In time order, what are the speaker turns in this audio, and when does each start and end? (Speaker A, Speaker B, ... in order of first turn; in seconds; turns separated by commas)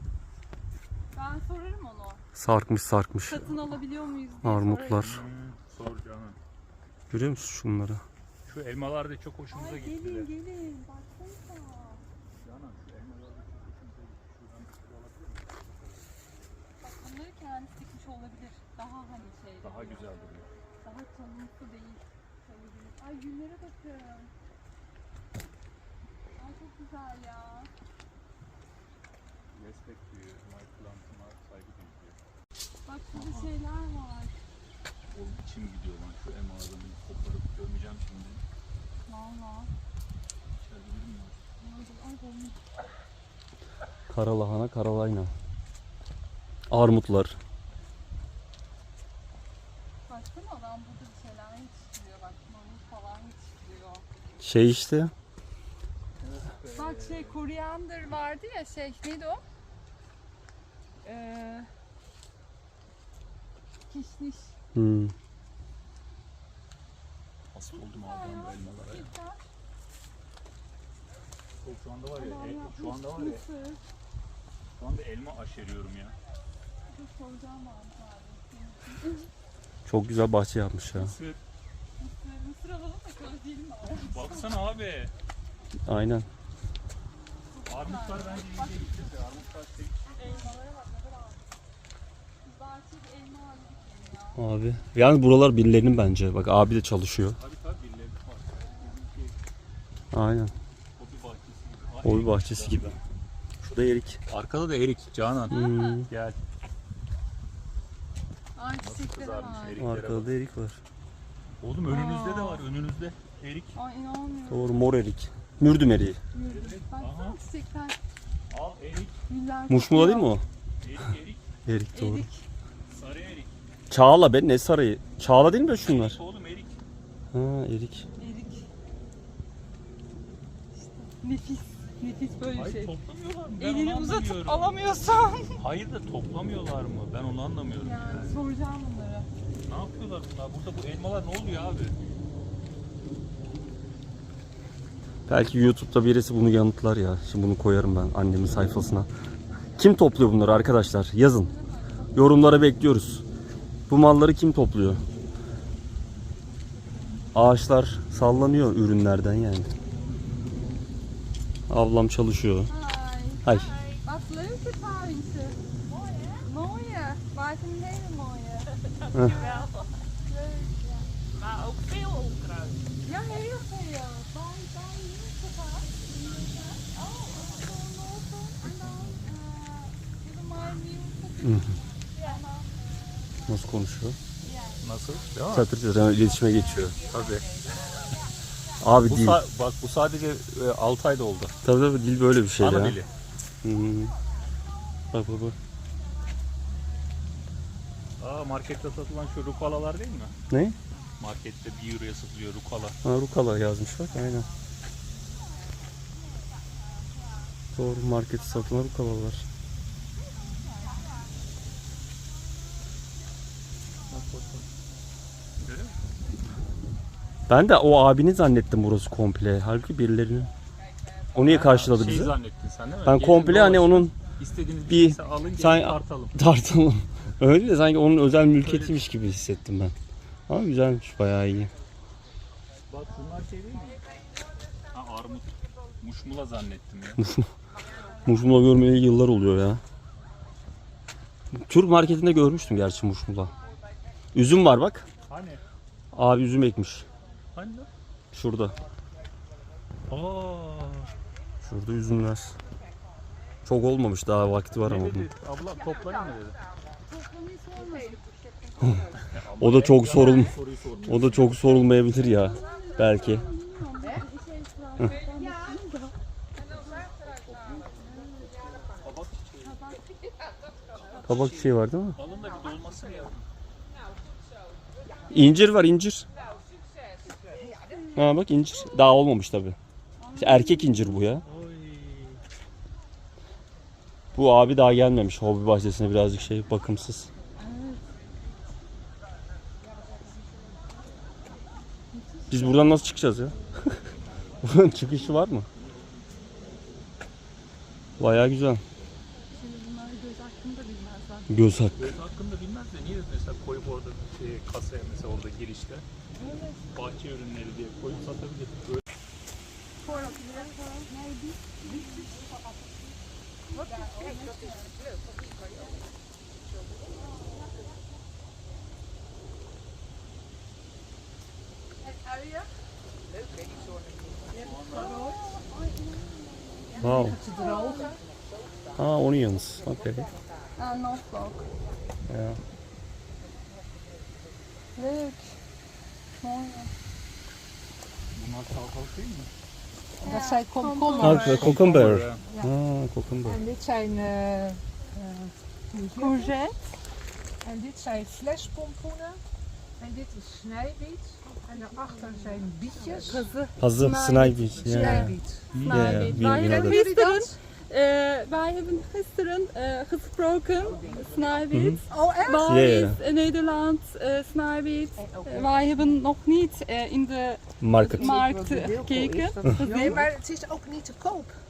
Speaker A: 1.1-2.2, Speaker B: 2.3-3.5, Speaker A: 3.3-5.2, Speaker B: 4.4-5.2, Speaker C: 5.0-6.4, Speaker B: 7.1-8.0, Speaker C: 8.4-10.3, Speaker A: 9.5-12.1, Speaker C: 12.3-16.1, Speaker A: 16.8-20.2, Speaker C: 19.6-20.5, Speaker A: 20.8-24.3, Speaker A: 26.4-27.7, Speaker C: 29.5-32.2, Speaker A: 32.9-34.4, Speaker C: 33.1-33.5, Speaker C: 35.1-38.4, Speaker A: 39.1-39.7, Speaker C: 40.5-41.4, Speaker A: 41.6-42.6, Speaker B: 44.1-45.3, Speaker B: 46.7-47.4, Speaker A: 50.1-54.0, Speaker B: 54.4-55.1, Speaker C: 56.2-57.4, Speaker A: 56.8-59.4, Speaker A: 61.0-61.7, Speaker A: 63.9-64.5, Speaker B: 64.8-65.1, Speaker C: 67.5-69.1, Speaker A: 67.8-69.4, Speaker C: 71.6-73.4, Speaker A: 72.1-73.8, Speaker C: 74.8-76.2, Speaker A: 76.9-79.3, Speaker B: 79.9-81.1, Speaker C: 81.0-81.4, Speaker A: 82.0-84.6, Speaker C: 84.0-85.1, Speaker B: 85.9-86.3, Speaker A: 87.5-88.8, Speaker C: 87.7-90.3, Speaker A: 90.1-91.4, Speaker A: 92.4-94.4, Speaker B: 94.4-97.4, Speaker C: 97.4-99.4, Speaker B: 100.1-100.5, Speaker C: 101.0-102.9, Speaker B: 102.0-103.0, Speaker B: 103.6-104.2, Speaker C: 104.3-106.4, Speaker A: 105.5-106.0, Speaker B: 105.5-106.1, Speaker A: 108.6-109.8, Speaker C: 108.8-110.3, Speaker B: 109.8-110.8, Speaker C: 111.6-113.8, Speaker A: 111.9-112.7, Speaker A: 113.8-114.9, Speaker B: 114.5-116.2, Speaker A: 116.3-118.0, Speaker C: 116.5-117.4, Speaker C: 118.5-119.2, Speaker A: 119.3-120.4, Speaker B: 119.7-120.4, Speaker C: 120.8-121.4, Speaker B: 121.7-122.3, Speaker A: 121.9-122.5, Speaker C: 122.9-123.5, Speaker B: 123.9-126.2, Speaker C: 125.8-126.8, Speaker B: 127.3-128.1, Speaker A: 128.2-128.7, Speaker A: 130.7-132.9, Speaker C: 132.5-134.8, Speaker A: 133.6-135.6, Speaker C: 135.6-138.4, Speaker A: 137.8-139.3, Speaker C: 139.6-141.9, Speaker B: 145.3-149.1, Speaker B: 149.8-151.5, Speaker A: 151.4-152.6, Speaker B: 152.1-153.2, Speaker B: 153.9-155.0, Speaker B: 157.3-159.7, Speaker B: 161.7-162.7, Speaker A: 162.7-171.1, Speaker B: 163.4-163.7, Speaker B: 169.1-169.4, Speaker D: 171.4-172.8, Speaker A: 173.0-182.8, Speaker B: 181.4-181.7, Speaker B: 183.5-184.2, Speaker A: 184.4-184.8, Speaker C: 184.8-185.7, Speaker B: 185.5-186.9, Speaker A: 186.1-186.9, Speaker C: 186.9-187.7, Speaker B: 188.8-189.4, Speaker C: 189.0-191.5, Speaker B: 191.6-193.0, Speaker C: 192.6-193.1, Speaker B: 193.6-194.2, Speaker B: 195.1-195.6, Speaker C: 198.2-200.3, Speaker B: 200.5-200.8, Speaker C: 201.2-203.0, Speaker B: 203.0-204.5, Speaker B: 207.7-209.4, Speaker A: 210.7-211.0, Speaker C: 214.1-214.7, Speaker C: 215.6-215.9, Speaker B: 217.5-220.5, Speaker B: 221.3-222.4, Speaker C: 221.3-226.3, Speaker B: 223.0-224.1, Speaker B: 224.9-229.9, Speaker C: 228.6-229.1, Speaker B: 230.5-231.7, Speaker C: 232.9-234.0, Speaker C: 234.9-237.2, Speaker B: 237.2-237.4, Speaker B: 238.2-239.8, Speaker B: 241.5-243.5, Speaker B: 244.3-245.1, Speaker C: 245.3-245.6, Speaker B: 246.1-247.1, Speaker C: 247.5-247.9, Speaker B: 248.3-248.8, Speaker C: 250.1-251.1, Speaker B: 251.6-252.5, Speaker B: 253.6-255.3, Speaker C: 254.8-256.6, Speaker A: 257.1-258.3, Speaker C: 259.2-261.6, Speaker B: 259.6-263.4, Speaker A: 260.2-260.5, Speaker A: 261.6-267.2, Speaker C: 267.4-269.8, Speaker A: 268.0-268.5, Speaker A: 269.6-270.3, Speaker C: 270.9-273.4, Speaker A: 271.1-271.5, Speaker B: 271.2-272.2, Speaker B: 275.3-276.2, Speaker A: 277.8-278.3, Speaker B: 278.1-279.8, Speaker A: 280.2-281.3, Speaker B: 280.4-281.4, Speaker C: 281.4-282.4, Speaker B: 284.3-287.3, Speaker A: 287.6-288.1, Speaker A: 292.1-293.1, Speaker B: 292.5-294.1, Speaker B: 294.6-295.7, Speaker A: 295.2-295.4, Speaker B: 298.2-298.8, Speaker A: 299.5-301.7, Speaker B: 301.5-302.1, Speaker C: 301.9-306.1, Speaker A: 306.4-306.9, Speaker C: 306.9-309.0, Speaker A: 310.0-312.4, Speaker A: 313.7-315.0, Speaker E: 313.8-314.4, Speaker D: 314.2-315.9, Speaker A: 317.1-317.8, Speaker E: 322.0-322.7, Speaker D: 323.5-324.5, Speaker A: 323.8-324.0, Speaker C: 324.5-325.1, Speaker E: 324.7-325.5, Speaker A: 324.9-328.2, Speaker E: 326.9-328.2, Speaker B: 327.0-327.4, Speaker B: 329.0-330.3, Speaker A: 330.8-331.7, Speaker B: 332.3-332.6, Speaker A: 334.9-335.6, Speaker A: 336.4-336.9, Speaker C: 338.3-339.5, Speaker E: 340.2-341.5, Speaker A: 340.2-341.7, Speaker B: 341.2-343.6, Speaker C: 341.2-342.4, Speaker E: 343.4-346.7, Speaker A: 346.1-346.9, Speaker E: 347.6-349.4, Speaker E: 350.0-353.5, Speaker A: 351.5-370.2, Speaker B: 353.8-355.3, Speaker E: 354.8-355.7, Speaker C: 355.7-356.2, Speaker B: 355.9-357.0, Speaker E: 356.4-357.6, Speaker D: 360.8-361.6, Speaker B: 361.7-362.0, Speaker E: 362.1-362.9, Speaker B: 362.6-363.2, Speaker D: 365.2-366.1, Speaker B: 367.8-368.4, Speaker D: 368.0-370.3, Speaker E: 369.8-371.6